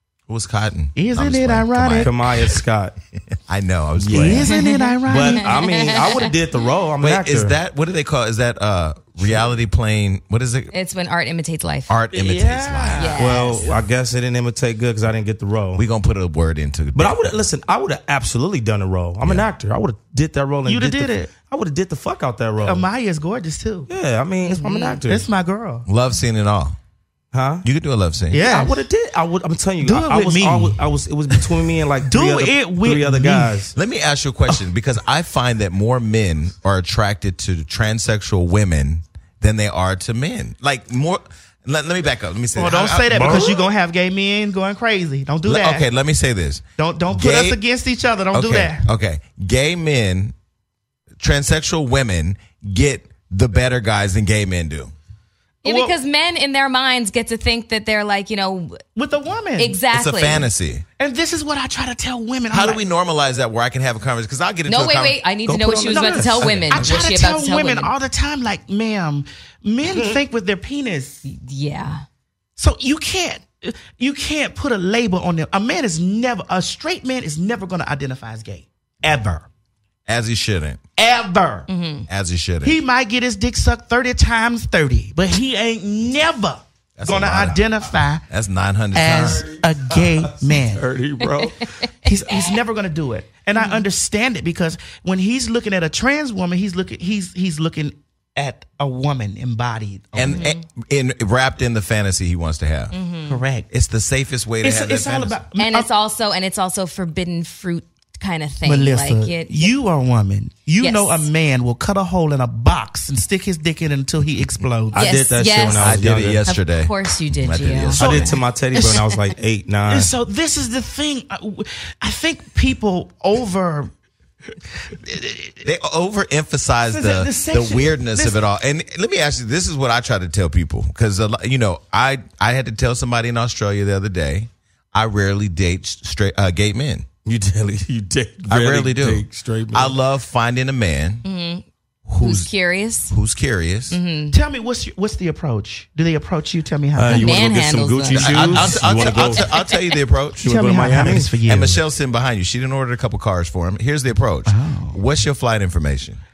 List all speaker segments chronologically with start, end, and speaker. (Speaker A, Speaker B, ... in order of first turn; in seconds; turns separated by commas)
Speaker A: 0.3-2.1, Speaker B: 0.9-2.2, Speaker C: 2.0-2.9, Speaker A: 3.5-4.5, Speaker C: 4.0-4.5, Speaker B: 4.1-5.6, Speaker D: 4.5-6.3, Speaker C: 5.0-7.6, Speaker A: 7.0-10.7, Speaker D: 10.7-11.9, Speaker A: 11.9-13.2, Speaker B: 12.1-13.8, Speaker D: 12.9-13.6, Speaker C: 13.2-15.8, Speaker A: 15.7-17.2, Speaker C: 16.9-22.9, Speaker B: 20.6-21.3, Speaker B: 22.6-23.9, Speaker C: 23.9-25.3, Speaker D: 24.4-25.0, Speaker B: 25.0-25.9, Speaker A: 25.9-26.8, Speaker C: 27.3-27.6, Speaker A: 27.6-28.4, Speaker B: 28.3-28.8, Speaker C: 28.3-33.7, Speaker B: 29.8-31.4, Speaker B: 32.1-33.6, Speaker A: 33.7-43.5, Speaker B: 42.6-45.9, Speaker C: 43.1-43.6, Speaker A: 45.4-47.6, Speaker B: 46.8-48.9, Speaker A: 48.3-50.3, Speaker A: 51.2-54.9, Speaker B: 55.6-55.9, Speaker D: 55.6-58.8, Speaker B: 58.9-59.8, Speaker D: 59.6-60.5, Speaker A: 59.9-60.8, Speaker B: 61.0-62.8, Speaker A: 62.5-65.2, Speaker D: 64.7-67.9, Speaker C: 65.5-66.6, Speaker B: 65.9-71.2, Speaker A: 66.3-66.9, Speaker C: 69.9-70.2, Speaker D: 71.2-72.0, Speaker B: 72.6-79.5, Speaker A: 80.1-80.8, Speaker B: 81.0-81.7, Speaker D: 81.7-82.1, Speaker A: 82.1-82.8, Speaker B: 82.6-88.2, Speaker A: 87.0-87.7, Speaker A: 88.3-89.5, Speaker B: 88.9-90.8, Speaker C: 89.2-91.7, Speaker D: 91.2-92.5, Speaker B: 92.0-100.4, Speaker D: 93.6-93.8, Speaker A: 100.1-102.9, Speaker D: 100.2-100.6, Speaker D: 102.9-103.4, Speaker B: 103.2-103.7, Speaker A: 103.7-105.4, Speaker B: 104.6-105.9, Speaker D: 105.6-109.7, Speaker B: 108.6-115.1, Speaker D: 110.8-111.3, Speaker C: 114.9-116.4, Speaker D: 114.9-119.2, Speaker A: 115.7-118.1, Speaker C: 118.0-120.1, Speaker B: 118.0-118.3, Speaker B: 119.9-123.9, Speaker B: 124.8-125.6, Speaker A: 125.6-137.1, Speaker B: 126.9-128.4, Speaker C: 137.2-139.9, Speaker A: 138.4-141.2, Speaker D: 141.2-141.6, Speaker A: 142.1-142.5, Speaker D: 142.2-143.1, Speaker A: 143.1-144.0, Speaker D: 143.9-144.4, Speaker B: 144.3-147.4, Speaker C: 146.9-149.5, Speaker D: 147.1-149.9, Speaker A: 148.1-156.2, Speaker C: 150.4-151.3, Speaker B: 150.4-151.8, Speaker B: 154.5-155.0